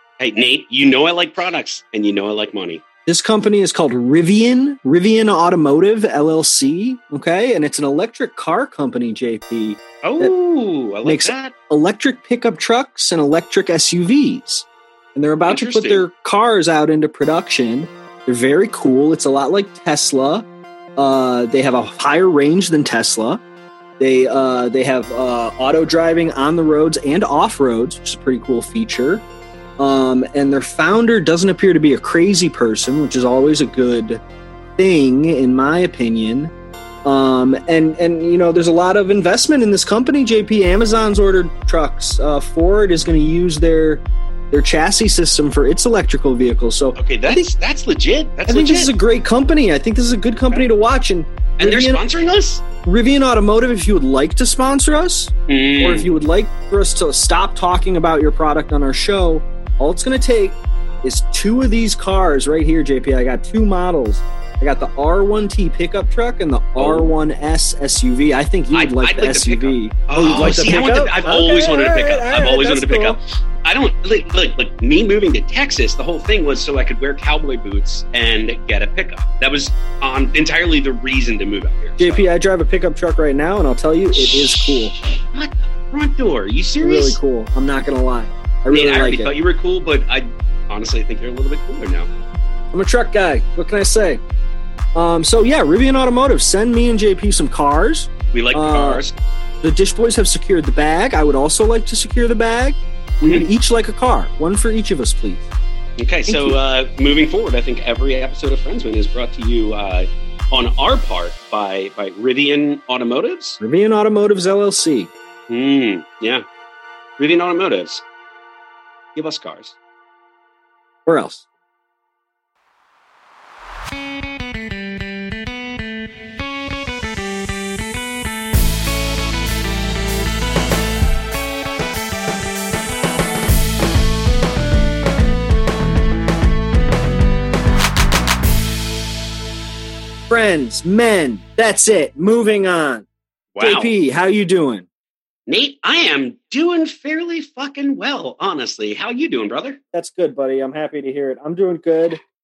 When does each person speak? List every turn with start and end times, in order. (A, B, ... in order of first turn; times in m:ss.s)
0:00.2-0:02.8 A
0:03.0-0:10.3 B
0:10.0-0:11.5 A
0:11.0-0:20.4 B
0:15.5-0:16.0 A
0:21.0-0:23.4 B
0:24.0-0:29.2 B
0:29.8-0:34.2 B
0:34.8-0:36.5 B
0:37.0-0:47.4 B
0:47.0-0:48.9 A
0:48.5-0:52.0 B
0:51.6-0:52.6 A
0:52.8-1:13.2 B
0:55.5-0:56.1 A
1:06.8-1:07.1 A
1:08.7-1:22.2 A
1:22.0-1:24.9 B
1:24.2-1:27.2 A
1:26.8-1:29.3 B
1:28.7-1:32.1 A
1:32.7-1:34.2 B
1:34.9-1:39.0 B
1:38.3-1:39.2 A
1:39.6-1:45.5 B
1:46.0-1:53.6 A
1:46.3-1:46.6 B
1:53.6-1:55.1 B
1:55.5-1:56.4 A
1:57.2-1:58.0 A
1:59.1-1:59.7 A
2:01.0-2:01.4 B
2:20.3-2:23.1 B
2:23.5-2:23.9 A
2:23.6-2:24.8 B
2:25.5-2:29.8 A
2:29.9-2:32.2 B